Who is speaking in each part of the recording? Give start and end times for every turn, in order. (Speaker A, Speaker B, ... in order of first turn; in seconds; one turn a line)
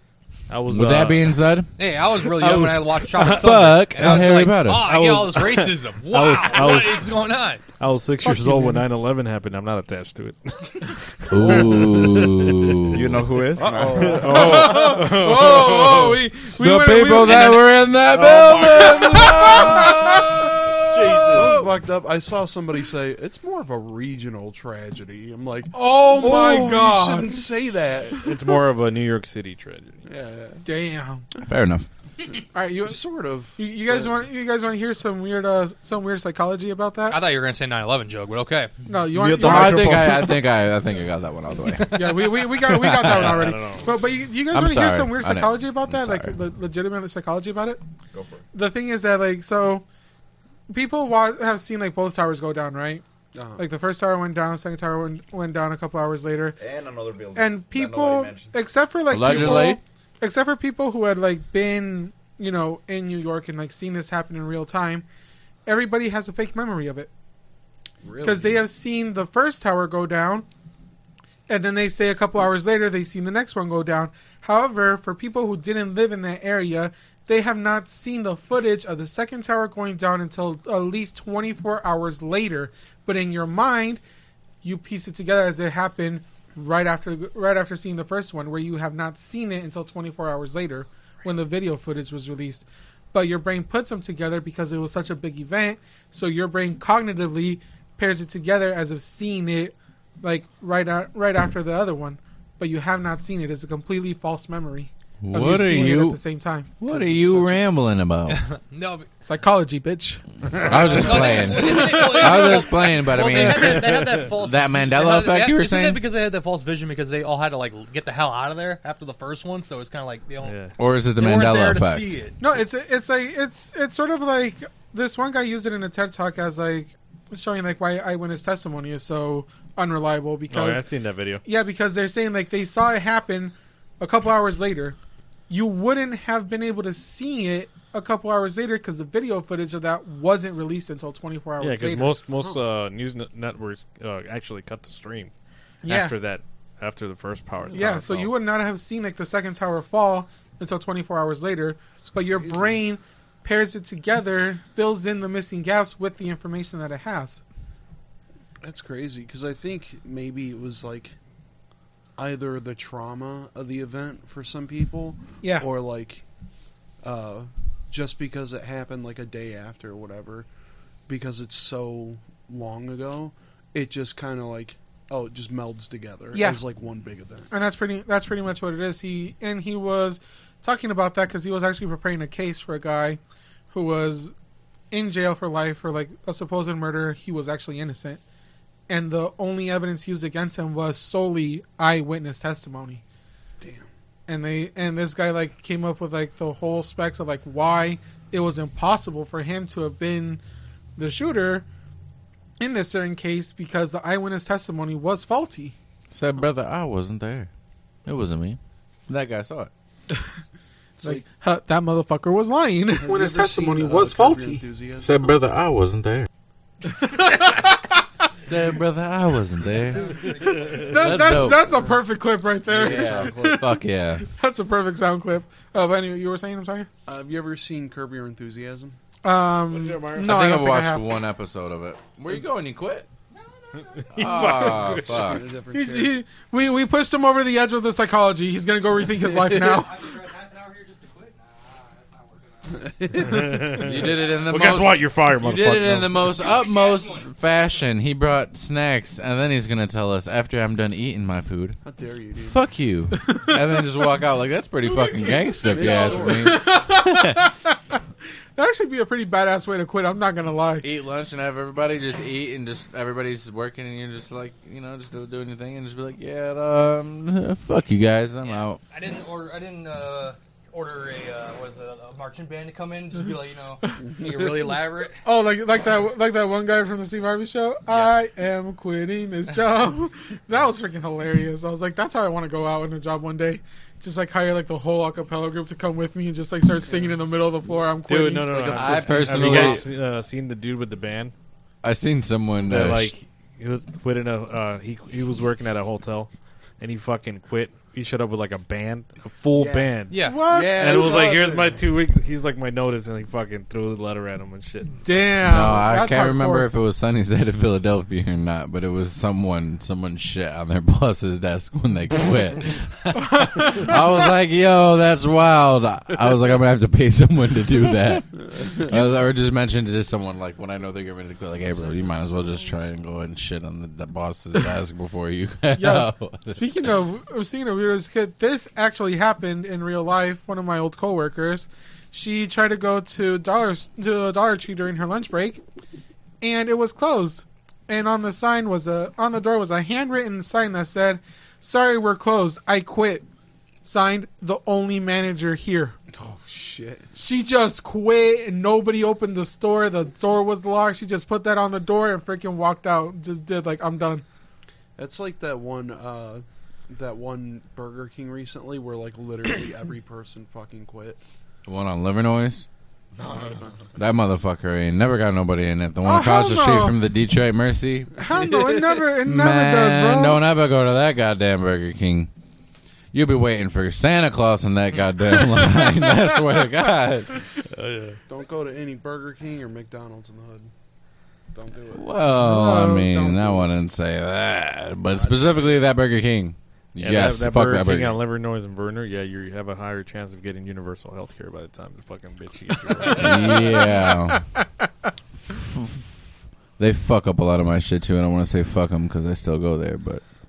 Speaker A: 0.5-1.4
Speaker B: 0.7-1.7
Speaker C: 1.8-7.6
Speaker B: 2.4-4.9
Speaker A: 2.4-7.2
Speaker A: 7.8-13.0
Speaker D: 8.2-8.8
Speaker B: 11.3-13.2
Speaker E: 12.9-14.6
Speaker A: 13.6-16.2
Speaker F: 13.6-14.8
Speaker D: 14.2-17.6
Speaker B: 16.6-21.6
Speaker A: 18.1-19.9
Speaker D: 18.8-20.4
Speaker A: 20.9-21.7
Speaker F: 21.3-28.3
Speaker D: 25.7-27.5
Speaker A: 28.1-30.0
Speaker F: 30.0-30.6
Speaker D: 30.6-31.2
Speaker B: 31.4-31.9
Speaker D: 32.5-33.0
Speaker F: 32.8-34.2
Speaker D: 33.5-37.2
Speaker C: 37.1-38.7
Speaker D: 38.9-40.0
Speaker E: 39.1-40.4
Speaker B: 39.4-43.5
Speaker C: 41.8-42.2
Speaker D: 41.9-47.8
Speaker A: 43.0-44.0
Speaker B: 44.5-46.3
Speaker E: 48.1-48.4
Speaker D: 48.5-49.8
Speaker D: 50.7-53.0
Speaker F: 53.3-53.6
Speaker D: 53.5-56.6
Speaker E: 56.6-58.6
Speaker D: 57.3-65.0
Speaker B: 59.1-59.8
Speaker D: 65.7-67.1
Speaker F: 68.0-68.6
Speaker D: 68.2-70.5
Speaker D: 71.5-84.0
Speaker D: 84.6-106.7
Speaker B: 105.2-106.2
Speaker B: 106.8-108.4
Speaker F: 106.8-107.6
Speaker C: 108.3-109.1
Speaker D: 109.2-110.2
Speaker A: 110.5-111.0
Speaker B: 110.6-116.0
Speaker C: 110.9-122.4
Speaker D: 111.1-112.6
Speaker A: 113.7-114.2
Speaker A: 120.4-120.8
Speaker B: 120.8-122.3
Speaker D: 122.4-130.9
Speaker A: 130.5-131.4
Speaker D: 131.4-135.0
Speaker D: 135.5-142.2
Speaker A: 141.6-145.3
Speaker D: 145.8-146.2
Speaker A: 145.8-148.3
Speaker F: 147.7-148.1
Speaker D: 147.7-157.4
Speaker F: 152.0-152.8
Speaker F: 158.6-161.2
Speaker F: 162.2-166.2
Speaker D: 165.4-165.7
Speaker F: 167.0-170.5
Speaker F: 171.1-177.5
Speaker D: 176.3-176.6
Speaker D: 177.5-183.2
Speaker D: 183.7-184.3
Speaker D: 184.9-188.2
Speaker D: 188.9-193.0
Speaker F: 193.6-193.9
Speaker D: 194.3-200.4
Speaker D: 201.0-201.6
Speaker D: 202.6-205.7
Speaker B: 206.1-207.5
Speaker B: 208.1-209.7
Speaker F: 211.0-211.2
Speaker D: 211.0-214.6
Speaker F: 213.0-215.2
Speaker B: 215.0-216.3
Speaker D: 216.9-217.8
Speaker B: 218.4-220.2
Speaker C: 219.7-221.5
Speaker A: 220.2-220.9
Speaker D: 220.8-226.9
Speaker B: 220.9-221.6
Speaker F: 222.7-223.6
Speaker B: 222.7-224.2
Speaker F: 227.1-229.0
Speaker D: 229.2-231.0
Speaker A: 229.7-230.4
Speaker B: 230.1-233.1
Speaker A: 234.1-235.2
Speaker B: 234.1-235.4
Speaker F: 234.7-236.1
Speaker D: 235.7-240.1
Speaker C: 239.6-242.6
Speaker F: 242.7-243.8
Speaker A: 243.2-246.4
Speaker B: 243.8-251.8
Speaker C: 246.4-247.2
Speaker F: 251.8-252.6
Speaker B: 252.3-257.4
Speaker D: 255.0-257.8
Speaker F: 255.6-256.6
Speaker D: 258.6-260.9
Speaker B: 260.8-268.8
Speaker C: 268.4-275.2
Speaker F: 274.0-274.7
Speaker D: 275.2-288.8
Speaker C: 277.9-278.1
Speaker F: 286.9-287.1
Speaker A: 288.1-291.3
Speaker F: 288.5-289.8
Speaker B: 288.7-289.9
Speaker B: 291.8-293.1
Speaker A: 292.6-300.2
Speaker F: 299.5-301.9
Speaker C: 300.1-300.4
Speaker D: 300.2-301.3
Speaker A: 300.7-305.8
Speaker D: 305.0-306.7
Speaker B: 305.4-326.7
Speaker D: 313.2-313.9
Speaker F: 318.5-318.9
Speaker D: 325.7-335.6
Speaker D: 336.4-343.2
Speaker D: 343.8-345.9
Speaker F: 346.1-347.1
Speaker D: 347.1-354.2
Speaker F: 355.0-361.2
Speaker B: 361.6-362.6
Speaker E: 363.1-363.7
Speaker F: 363.2-363.8
Speaker B: 363.9-368.1
Speaker D: 366.0-367.0
Speaker D: 368.2-370.4
Speaker F: 368.3-368.6
Speaker B: 369.2-372.3
Speaker B: 373.1-377.4
Speaker A: 377.7-378.2
Speaker F: 378.3-380.7
Speaker F: 381.5-382.2
Speaker B: 381.9-388.2
Speaker D: 382.4-383.4
Speaker F: 383.3-383.7
Speaker F: 385.1-385.8
Speaker A: 387.0-393.6
Speaker B: 393.1-394.5
Speaker B: 396.8-400.2